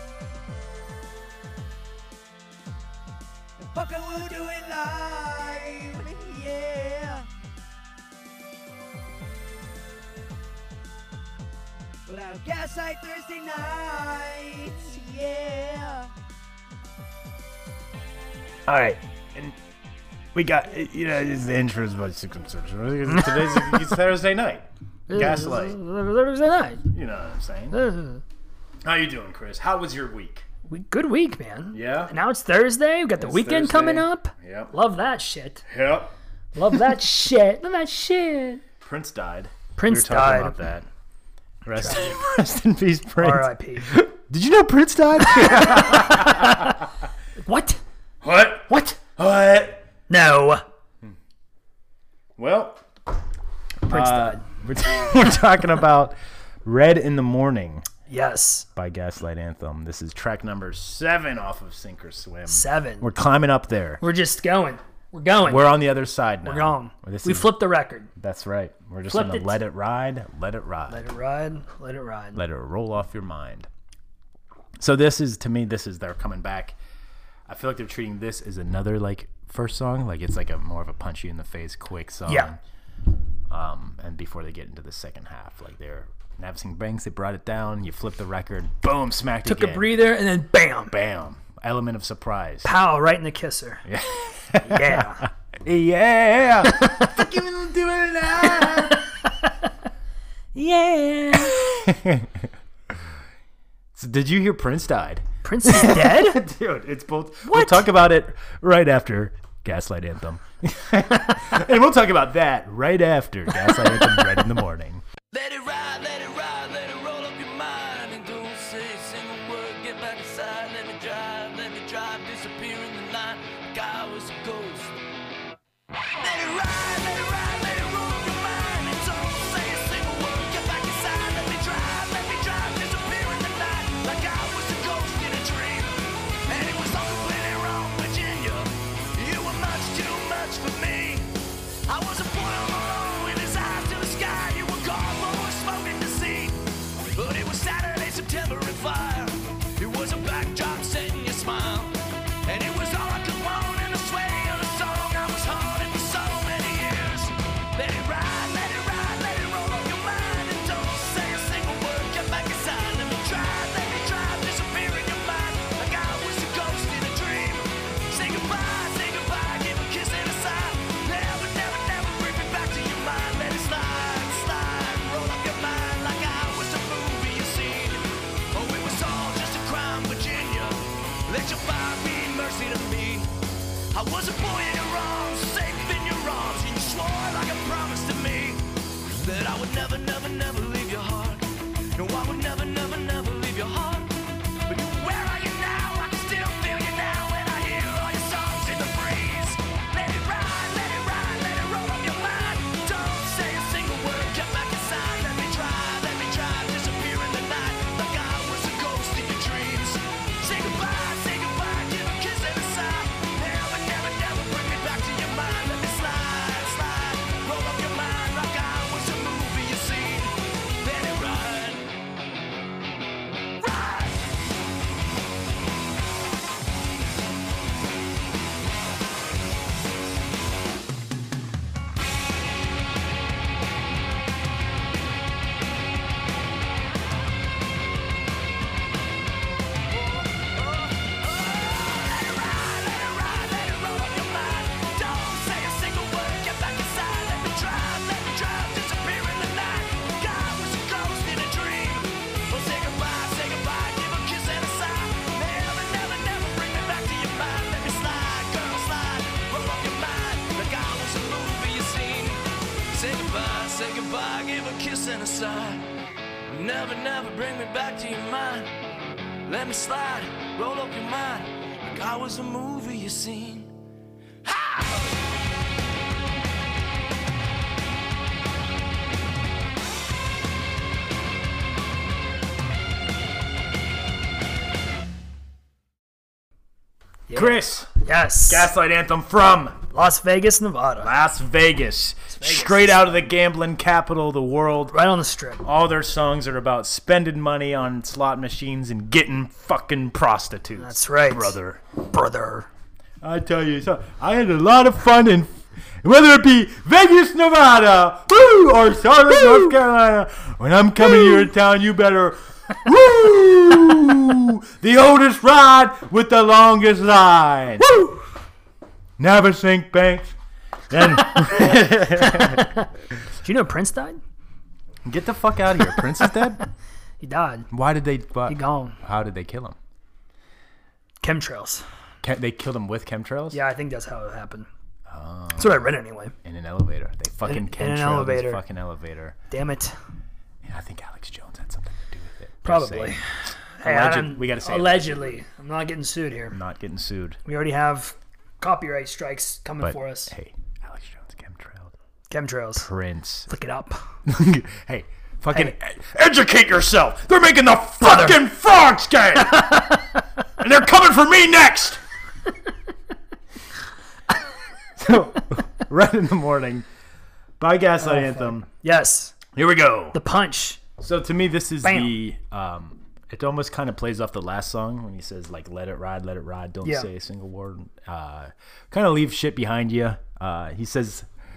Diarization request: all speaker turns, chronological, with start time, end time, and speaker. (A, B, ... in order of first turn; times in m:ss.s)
0:03.6-0:07.3 A
0:12.1-0:16.1 A
0:18.7-0:19.6 B
0:20.3-0:25.8 B
0:23.1-0:23.9 C
0:25.1-0:26.9 C
0:26.8-0:27.8 B
0:27.7-0:28.2 C
0:28.8-0:30.4 B
0:30.7-0:35.6 C
0:31.7-0:32.1 B
0:33.2-0:34.7 B
0:35.7-0:36.1 B
0:36.5-0:38.6 C
0:38.8-0:40.8 B
0:39.7-0:40.6 C
0:41.6-0:46.7 B
0:41.8-0:42.2 C
0:43.2-0:44.0 C
0:45.2-0:46.8 C
0:47.4-0:47.8 C
0:48.2-0:49.8 B
0:50.1-0:50.6 C
0:52.4-0:52.8 B
0:53.8-0:57.9 B
0:53.9-0:54.4 C
0:58.1-0:58.7 C
0:58.8-1:04.0 B
1:02.5-1:03.1 C
1:04.0-1:05.7 C
1:05.4-1:07.6 B
1:06.4-1:08.1 C
1:08.2-1:11.1 B
1:09.1-1:09.6 C
1:10.9-1:12.4 C
1:12.3-1:13.7 B
1:14.8-1:16.8 B
1:17.5-1:22.6 B
1:23.5-1:29.9 B
1:29.4-1:30.9 C
1:30.9-1:32.7 B
1:32.6-1:33.8 C
1:33.8-1:39.0 B
1:34.6-1:35.2 C
1:36.8-1:37.1 C
1:38.4-1:39.7 C
1:40.5-1:41.6 C
1:41.4-1:42.4 B
1:43.9-1:55.0 B
1:45.4-1:46.4 C
1:47.4-1:47.8 C
1:53.7-1:54.0 C
1:55.3-2:05.0 D
2:06.2-2:21.3 D
2:21.8-3:03.3 D
3:03.9-3:41.9 D
3:43.6-3:44.2 D
3:59.9-4:25.9 D
4:26.5-4:28.7 D
4:29.5-4:33.7 D
4:34.4-4:35.1 D
4:47.3-4:48.7 C
4:47.3-4:47.9 B
4:48.5-4:49.8 B
4:49.9-4:51.1 C
4:51.0-4:55.0 B
4:52.3-4:53.2 C
4:54.9-4:55.6 C
4:55.6-5:01.8 B
5:00.8-5:02.7 C
5:03.2-5:17.9 B
5:17.8-5:18.2 C
5:19.2-5:20.3 B
5:20.9-5:22.7 B
5:22.4-5:22.6 C
5:23.4-5:24.2 C
5:25.0-5:26.6 B
5:27.2-5:27.7 C
5:27.7-5:29.8 B
5:28.5-5:29.0 C
5:31.2-5:31.8 C
5:32.2-5:33.6 B
5:33.5-5:34.7 C
5:35.1-5:39.4 B
5:35.6-5:36.3 C
5:37.4-5:38.6 C
5:39.5-5:39.9 C
5:40.6-5:43.2 B
5:42.6-5:46.6 C
5:43.8-5:45.4 B
5:46.5-5:47.4 B
5:47.4-5:50.3 C
5:49.8-5:51.9 B
5:52.3-5:52.9 C
5:52.8-5:53.5 B
5:53.5-5:54.0 C
5:54.2-6:00.0 B
5:58.0-5:58.4 C
5:59.7-6:00.0 C
6:00.6-6:02.0 B
6:05.0-6:06.8 B
6:07.6-6:08.7 B
6:08.0-6:09.4 C
6:09.5-6:10.2 B
6:10.1-6:10.8 C
6:11.0-6:21.3 B
6:11.8-6:12.2 C
6:16.8-6:17.1 C